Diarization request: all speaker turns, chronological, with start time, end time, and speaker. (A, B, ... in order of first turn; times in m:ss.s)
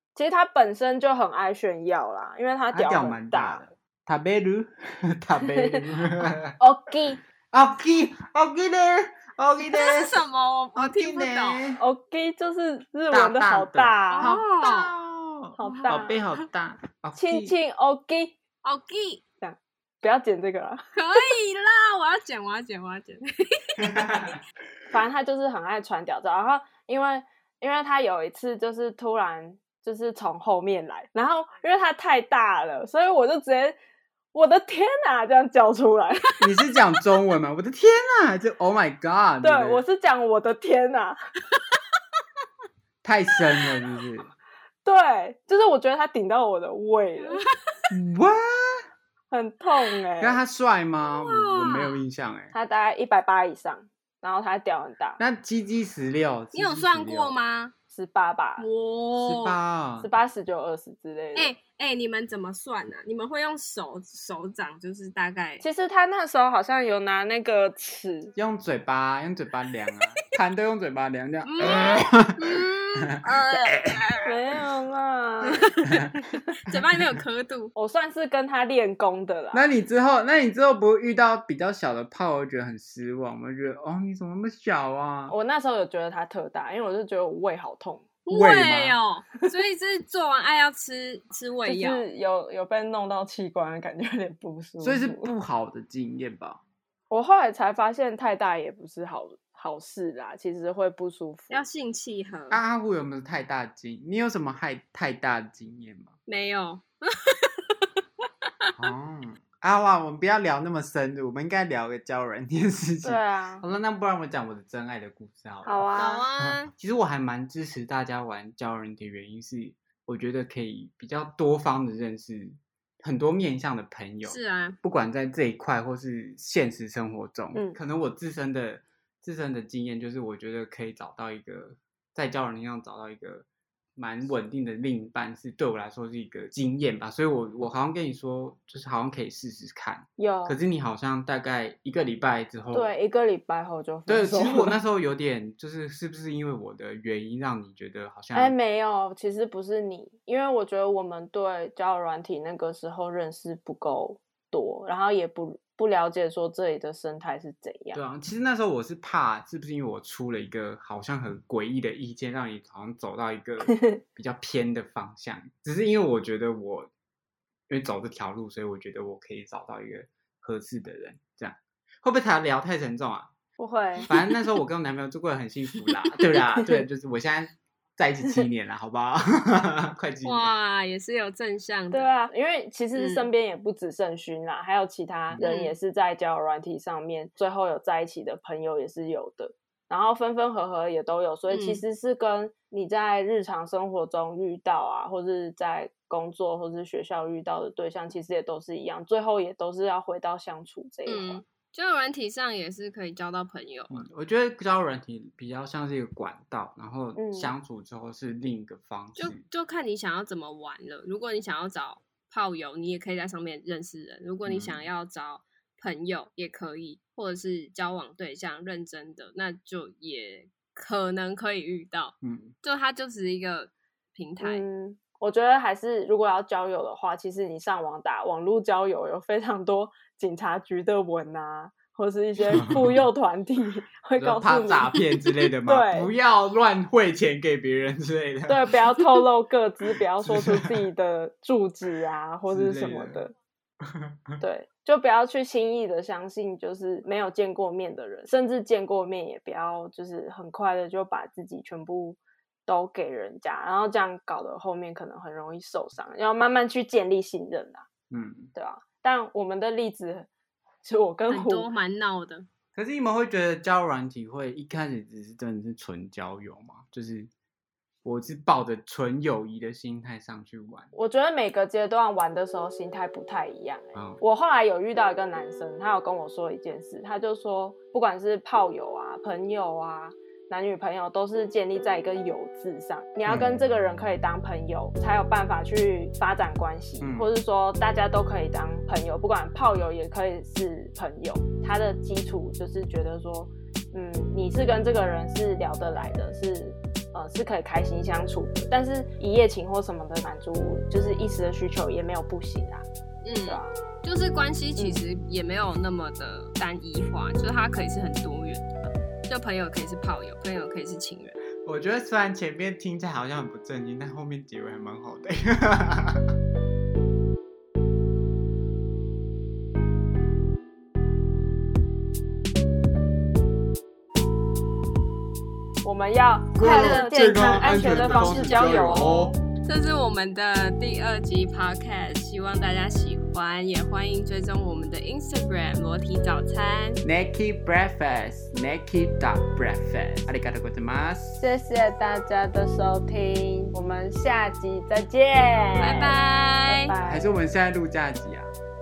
0:00.1-0:03.6 A
0:02.7-0:06.6 B
0:05.4-0:05.8 A
0:06.6-0:07.2 A
0:07.5-0:10.1 B
0:09.7-0:11.6 C
0:10.7-0:11.8 B
0:11.8-0:14.3 A
0:13.1-0:17.5 B
0:14.1-0:14.9 C
0:15.6-0:16.2 A
0:15.6-0:16.4 C
0:17.1-0:18.4 A
0:18.6-0:19.2 C
0:19.4-0:21.3 A
0:21.0-0:24.0 C
0:23.8-0:24.4 B
0:24.9-0:33.8 A
0:34.3-0:36.4 A
0:36.4-0:39.8 B
0:39.4-0:41.2 A
0:43.0-0:44.3 B
0:44.8-0:47.4 A
0:47.2-0:47.5 C
0:47.9-0:48.8 B
0:49.3-0:50.4 A
0:50.2-0:52.5 B
0:51.2-0:52.0 C
0:52.5-0:55.2 A
0:55.2-0:57.3 B
0:56.5-0:57.7 C
0:57.9-0:58.6 A
0:58.6-0:59.6 C
0:59.2-1:00.1 B
1:00.0-1:01.5 A
1:01.3-1:05.6 C
1:05.6-1:08.3 A
1:08.3-1:13.9 B
1:11.4-1:14.3 C
1:14.2-1:15.7 A
1:15.6-1:17.7 C
1:17.7-1:19.6 A
1:19.5-1:25.3 B
1:25.3-1:28.1 A
1:28.2-1:32.0 C
1:28.3-1:29.0 B
1:31.6-1:35.3 A
1:34.8-1:36.6 B
1:37.1-1:41.6 A
1:41.5-1:42.6 C
1:42.5-1:46.1 B
1:46.3-1:47.8 C
1:48.8-2:13.4 B
1:53.0-1:53.6 A
1:55.6-1:56.2 A
1:56.0-1:56.7 C
2:04.2-2:04.8 C
2:07.5-2:07.8 A
2:14.0-2:22.9 B
2:20.2-2:20.6 A
2:22.7-2:24.8 A
2:24.1-2:28.5 B
2:28.3-2:38.0 A
2:37.9-2:46.9 B
2:47.7-2:53.3 B
2:53.6-2:54.0 A
2:54.1-2:54.6 C
2:54.1-3:00.5 B
3:00.2-3:02.1 C
3:01.9-3:21.4 A
3:03.0-3:03.3 C
3:05.4-3:05.7 C
3:11.5-3:11.8 C
3:21.1-3:24.0 C
3:23.9-3:29.4 B
3:27.1-3:27.5 A
3:29.2-3:44.6 C
3:34.4-3:34.8 B
3:42.2-3:42.5 B
3:44.4-3:55.0 A
3:52.5-3:53.0 B
3:54.2-3:58.6 B
3:55.6-3:56.1 A
3:58.5-4:03.3 A
4:00.2-4:00.8 B
4:02.5-4:03.2 B
4:03.8-4:04.4 B
4:04.4-4:17.9 A
4:18.1-4:18.5 B
4:18.5-4:20.3 A
4:20.8-4:21.7 A
4:21.3-4:22.4 C
4:22.7-4:27.3 B
4:28.0-4:30.9 B
4:30.9-5:02.8 A
4:33.9-4:34.2 B
4:43.3-4:43.6 B
4:47.0-4:47.3 B
5:03.2-5:11.4 C
5:03.4-5:03.8 A
5:04.8-5:05.0 A
5:11.6-5:16.3 B
5:25.8-5:29.3 A
5:26.6-5:29.3 B
5:26.6-5:37.0 C
5:37.0-5:41.4 B
5:41.4-5:47.3 A
5:45.8-5:46.9 C
5:47.0-5:48.5 B